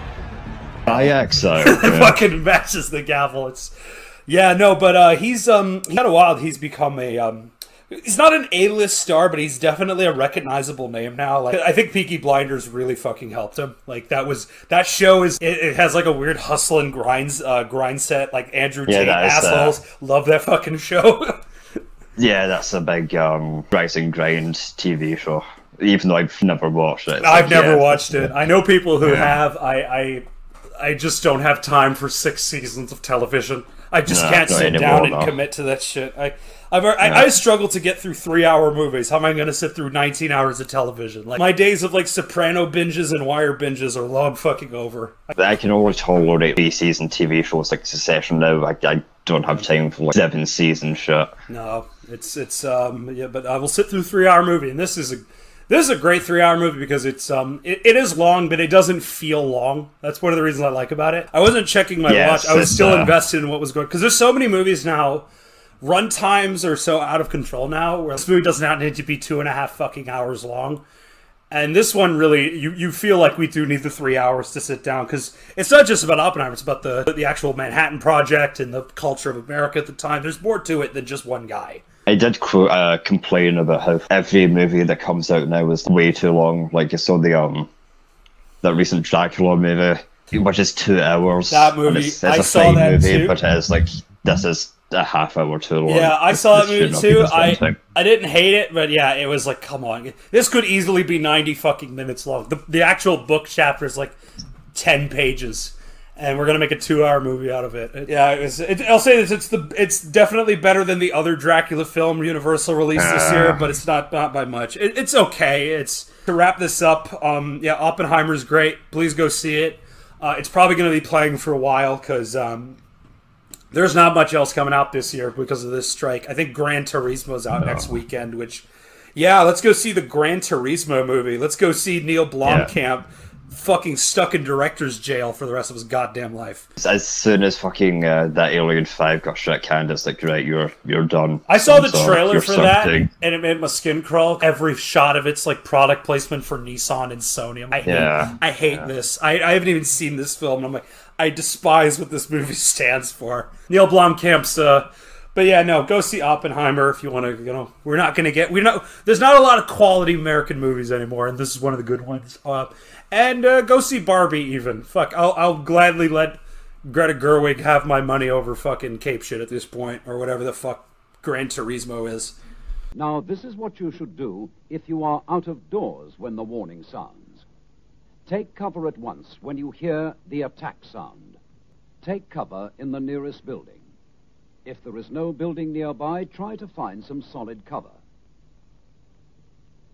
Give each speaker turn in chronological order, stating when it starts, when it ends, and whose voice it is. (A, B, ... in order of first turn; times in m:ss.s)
0:00.9-0:02.2 A
0:01.6-0:03.7 B
0:04.3-0:21.4 B
0:18.9-0:19.8 A
0:22.2-0:28.3 A
0:27.2-0:30.2 B
0:29.0-0:29.4 A
0:30.8-0:45.3 B
0:34.1-0:35.3 A
0:37.0-0:37.3 A
0:45.4-0:51.3 A
0:51.5-1:05.3 B
1:02.1-1:03.1 A
1:05.8-1:10.8 B
1:11.5-1:21.8 B
1:22.1-1:27.7 A
1:28.6-1:37.8 A
1:31.5-1:33.4 B
1:35.9-1:44.2 B
1:44.7-2:02.8 B
1:53.0-1:53.6 A
2:03.7-2:08.6 B
2:07.6-2:07.9 A
2:09.2-2:16.7 B
2:12.4-2:12.7 A
2:16.8-2:23.1 A
2:21.5-2:52.4 B
2:27.9-2:28.9 A
2:53.0-2:57.4 C
2:58.3-3:01.4 C
3:02.0-3:03.9 C
3:04.6-3:08.0 C